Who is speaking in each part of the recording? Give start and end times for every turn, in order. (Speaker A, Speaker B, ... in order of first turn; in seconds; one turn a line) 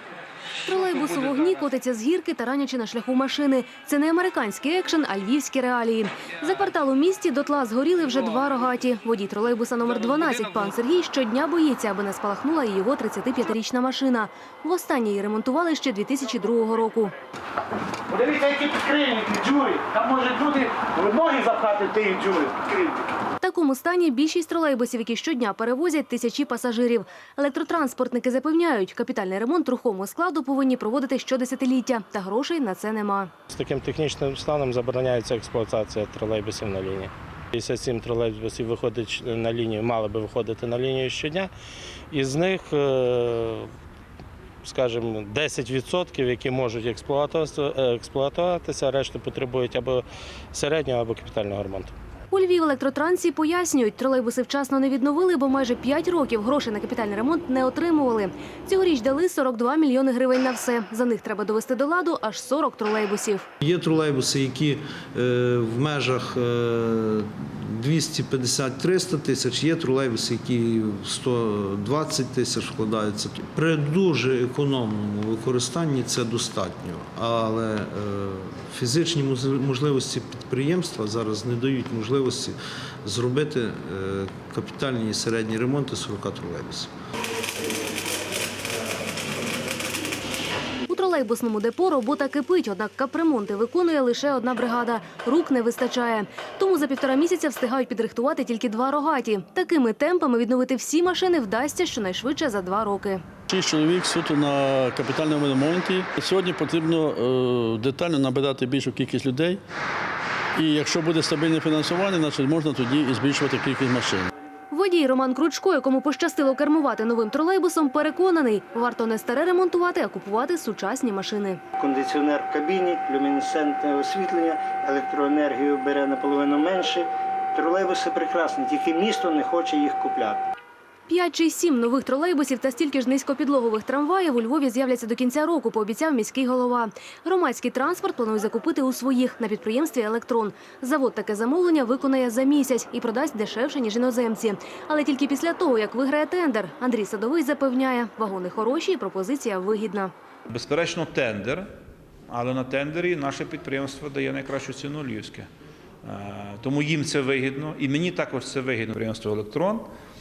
Speaker A: 0.7-17.1
Speaker B: 18.1-23.1
Speaker A: 23.4-33.3
Speaker C: 33.5-41.5
Speaker C: 42.1-43.7
Speaker C: 44.6-51.9
Speaker A: 52.3-63.5
Speaker D: 63.6-86.9
Speaker A: 90.9-103.2
Speaker E: 103.5-109.6
Speaker E: 110.5-114.3
Speaker A: 114.7-121.6
Speaker B: 121.8-130.4
Speaker A: 131.1-150.1
Speaker F: 150.5-151.7
Speaker F: 152.3-155.5
Speaker F: 156.0-159.9